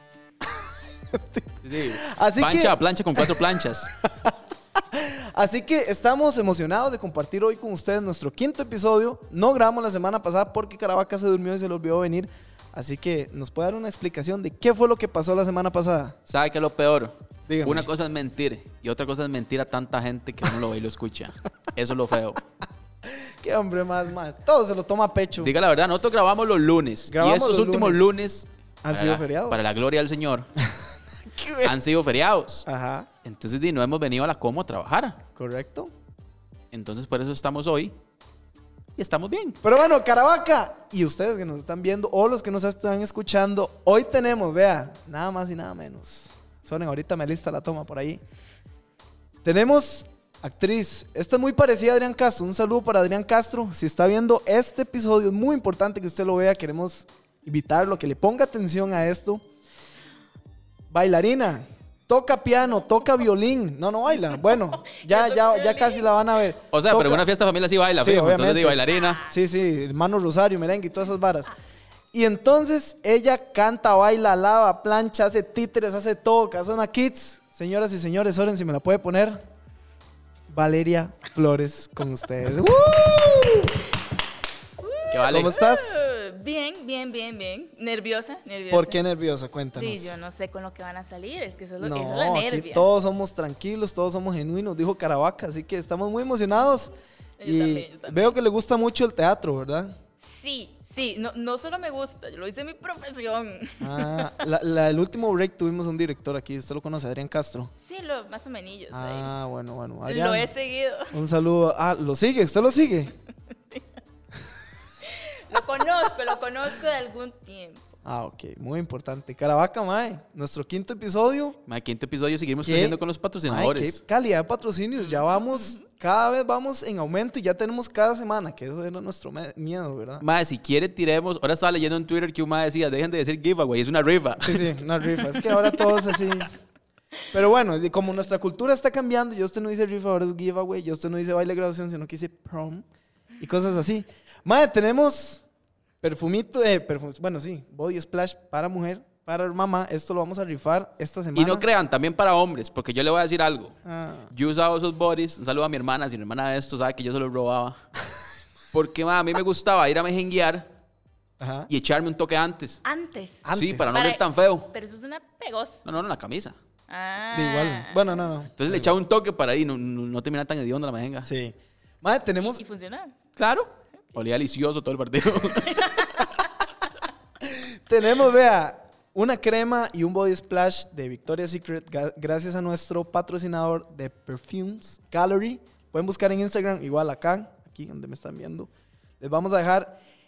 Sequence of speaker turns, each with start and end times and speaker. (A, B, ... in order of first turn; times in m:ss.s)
0:00.4-0:16.2 A
0:01.6-0:03.9 B
0:16.3-0:22.4 B
0:17.5-0:17.9 A
0:23.0-0:25.5 A
0:25.4-0:30.5 B
0:27.1-0:28.1 A
0:28.8-0:29.8 A
0:30.7-0:31.8 A
0:31.6-0:32.7 B
0:32.7-0:33.1 A
0:33.2-0:35.2 B
0:35.4-0:35.9 A
0:36.7-0:38.0 B
0:39.0-0:39.6 B
0:39.6-0:48.2 A
0:49.4-0:59.4 A
1:00.9-1:07.3 A
1:04.2-1:06.1 C
1:06.7-1:09.2 B
1:08.0-1:11.5 A
1:08.9-1:09.3 C
1:12.1-1:19.4 A
1:20.5-1:23.8 A
1:24.8-1:29.0 C
1:25.1-1:25.6 B
1:25.3-1:26.1 A
1:28.7-1:30.2 A
1:29.7-1:32.9 C
1:31.8-1:36.9 A
1:37.4-1:38.4 C
1:37.4-1:40.0 A
1:40.2-1:44.4 C
1:43.8-1:47.7 A
1:47.8-1:49.3 C
1:48.9-1:50.5 A
1:50.1-1:51.2 C
1:51.1-1:53.1 A
1:55.0-1:58.0 C
1:58.0-2:01.6 A
2:01.7-2:04.0 B
2:02.6-2:10.3 A
2:05.0-2:05.9 C
2:10.2-2:14.7 B
2:14.4-2:16.5 A
2:17.3-2:22.8 A
2:23.4-2:25.4 A
2:26.0-2:31.7 A
2:31.4-2:33.8 B
2:33.8-2:34.3 A
2:34.3-2:37.8 B
2:38.7-2:40.7 B
2:41.4-2:41.7 A
2:41.7-2:42.8 B
2:42.8-2:45.8 C
2:43.4-2:44.0 A
2:43.5-2:44.7 B
2:45.8-2:46.6 B
2:46.9-2:48.3 C
2:47.3-2:48.9 A
2:48.6-2:51.3 B
2:51.2-2:52.6 A
2:52.4-2:53.2 C
2:53.4-2:56.3 B
2:55.6-2:56.4 C
2:57.4-3:10.0 A